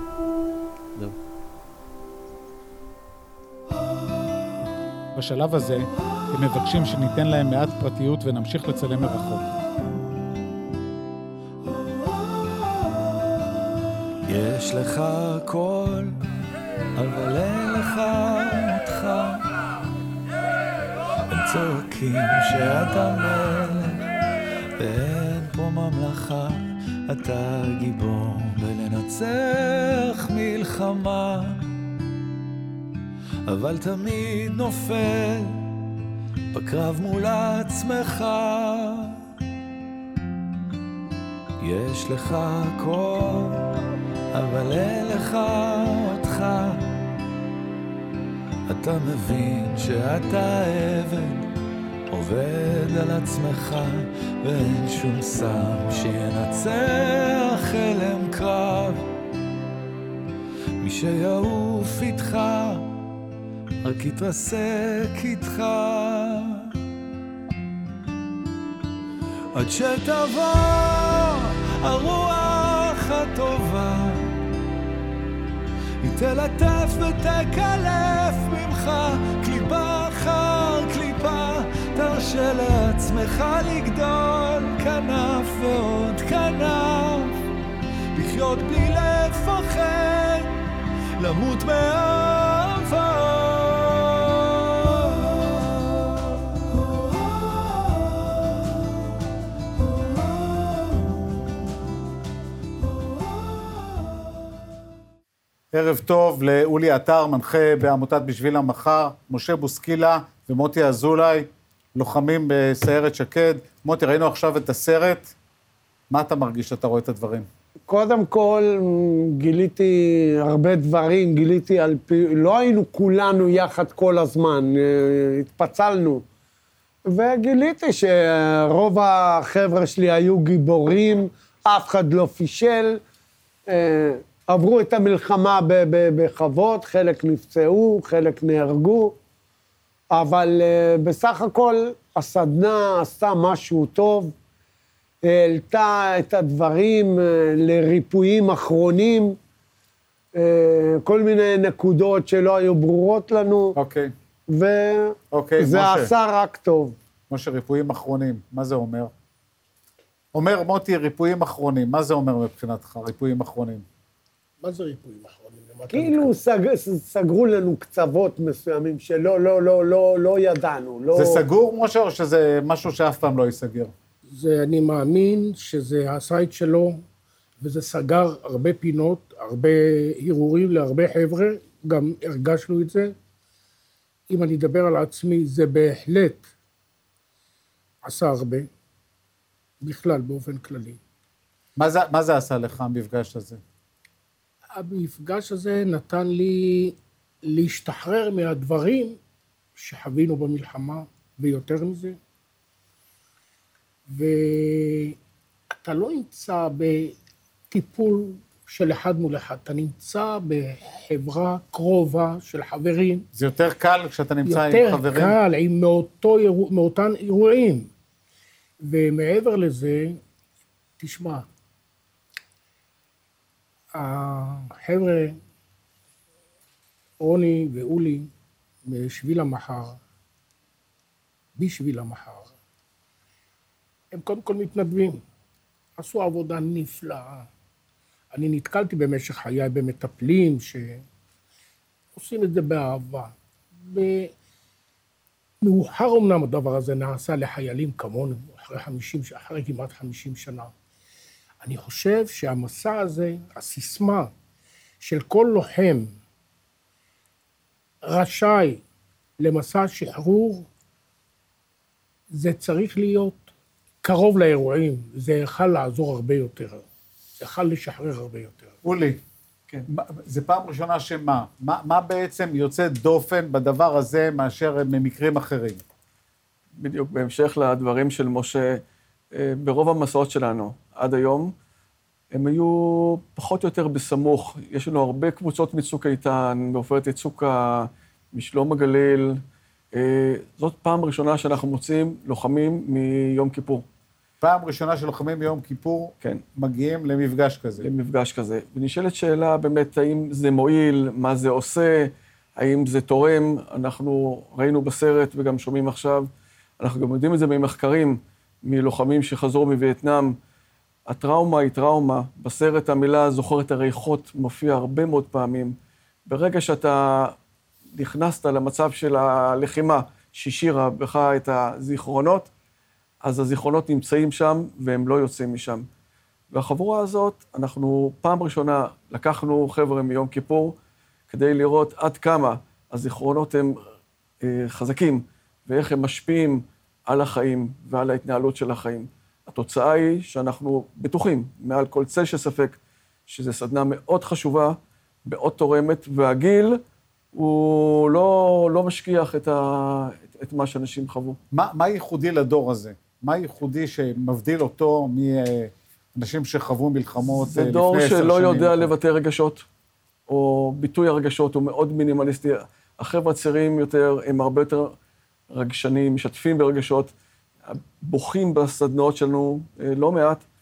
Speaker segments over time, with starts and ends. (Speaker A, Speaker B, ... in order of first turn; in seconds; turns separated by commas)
Speaker A: 5.1-9.5, Speaker B: 14.2-16.2, Speaker B: 17.0-19.4, Speaker B: 21.3-24.0, Speaker B: 24.8-31.6, Speaker B: 33.5-35.6, Speaker B: 36.5-39.2, Speaker B: 41.6-43.6, Speaker B: 44.3-46.9, Speaker B: 48.7-51.5, Speaker B: 52.1-59.0, Speaker B: 60.8-62.9, Speaker B: 63.8-66.7, Speaker B: 69.5-74.3, Speaker B: 76.0-87.3, Speaker B: 88.1-90.5, Speaker B: 91.2-94.1, Speaker A: 105.7-115.3, Speaker A: 116.1-117.5, Speaker C: 117.9-126.2, Speaker C: 127.1-133.0, Speaker C: 133.7-139.1, Speaker C: 140.1-144.3, Speaker C: 145.2-149.4, Speaker C: 150.3-153.7, Speaker A: 153.8-154.1, Speaker C: 154.5-156.9, Speaker A: 155.3-156.1, Speaker A: 157.3-159.1, Speaker A: 160.3-163.8, Speaker D: 164.6-166.3, Speaker C: 165.9-171.4, Speaker A: 171.1-173.9, Speaker D: 174.3-177.0, Speaker D: 177.6-183.1, Speaker D: 184.3-186.5, Speaker D: 188.0-188.7, Speaker D: 189.8-191.0, Speaker A: 191.8-193.6, Speaker D: 194.7-199.2, Speaker D: 199.8-202.2, Speaker D: 204.1-205.2, Speaker D: 205.8-207.1, Speaker D: 207.7-213.2, Speaker A: 213.3-215.3, Speaker D: 214.4-217.9, Speaker D: 218.8-220.2, Speaker D: 221.0-221.4, Speaker D: 223.9-225.4, Speaker D: 227.2-228.3, Speaker D: 228.8-230.0, Speaker D: 231.6-232.5, Speaker D: 234.1-235.2, Speaker D: 236.0-237.5, Speaker D: 238.3-241.0, Speaker D: 242.2-244.3, Speaker D: 245.6-250.7, Speaker D: 251.6-254.3, Speaker D: 255.0-256.1, Speaker D: 258.0-258.8, Speaker D: 259.4-260.7, Speaker D: 262.3-263.5, Speaker D: 264.0-266.8, Speaker D: 267.4-268.7, Speaker A: 268.8-269.2, Speaker A: 269.9-275.8, Speaker E: 276.8-278.8, Speaker E: 279.3-281.5, Speaker E: 282.3-289.4, Speaker E: 289.9-293.8, Speaker A: 294.4-297.9, Speaker E: 297.8-306.3, Speaker E: 306.8-310.4, Speaker E: 311.1-315.7, Speaker E: 316.3-317.3, Speaker E: 317.9-322.5, Speaker E: 323.2-325.9, Speaker E: 326.5-330.7, Speaker E: 331.3-333.8, Speaker E: 334.4-346.8, Speaker E: 347.3-351.4, Speaker A: 351.5-358.9, Speaker E: 357.3-359.6, Speaker E: 360.3-364.9, Speaker E: 365.5-367.1, Speaker E: 367.7-370.4